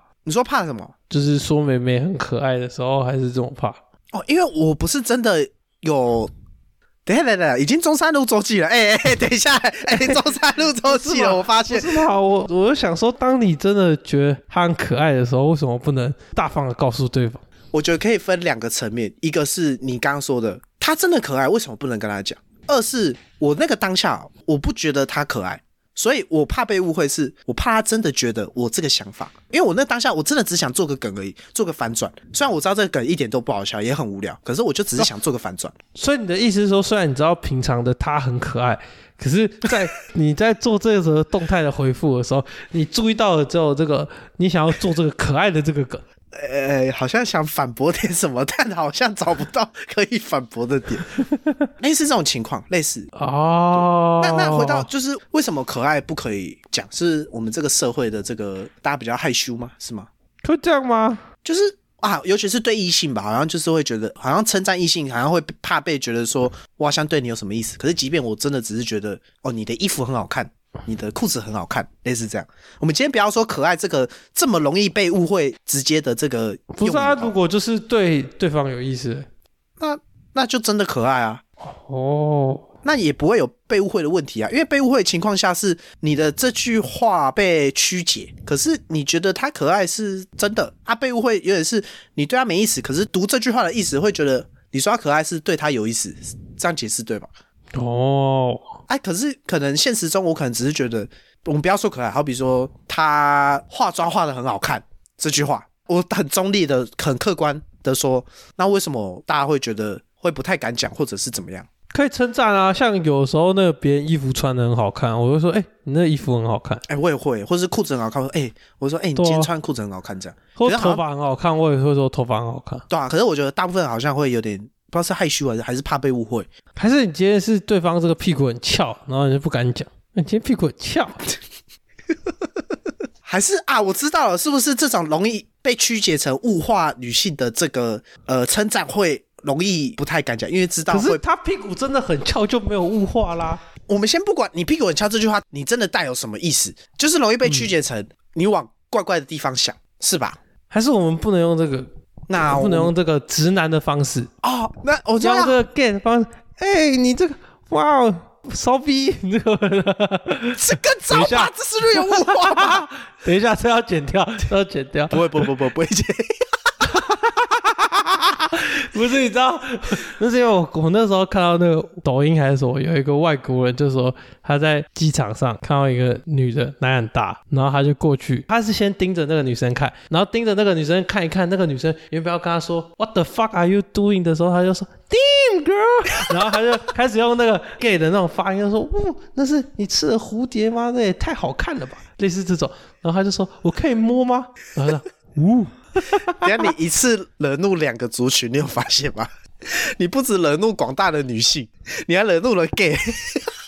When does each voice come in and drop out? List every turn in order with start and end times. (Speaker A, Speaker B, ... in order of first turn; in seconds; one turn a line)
Speaker A: 0.2-0.9
Speaker B: 1.1-3.8
Speaker A: 4.1-6.3
Speaker A: 7.0-12.0
Speaker B: 10.8-17.4
Speaker A: 17.7-35.7
Speaker B: 35.9-46.0
Speaker A: 46.3-51.1
Speaker B: 51.2-51.6
Speaker A: 51.8-53.1
Speaker B: 53.1-54.9
Speaker A: 53.8-60.1
Speaker B: 60.4-61.2
Speaker A: 61.4-77.3
Speaker B: 76.7-79.2
Speaker A: 79.8-81.4
Speaker B: 81.6-82.6
Speaker A: 82.8-97.3
Speaker B: 97.7-98.8
Speaker A: 98.9-111.7
Speaker B: 111.9-116.8
Speaker A: 116.9-121.0
Speaker B: 119.2-119.5
Speaker B: 120.5-122.8
Speaker A: 122.9-126.5
Speaker B: 126.7-131.2
Speaker A: 133.2-141.2
Speaker B: 140.9-143.6
Speaker A: 143.9-150.4
Speaker B: 150.7-151.9
Speaker A: 152.3-152.9
Speaker B: 152.4-154.3
Speaker A: 154.4-155.6
Speaker B: 155.2-165.5
Speaker A: 160.5-162.8
Speaker A: 165.1-166.4
Speaker B: 166.8-167.5
Speaker B: 168.4-196.5
Speaker A: 196.4-203.5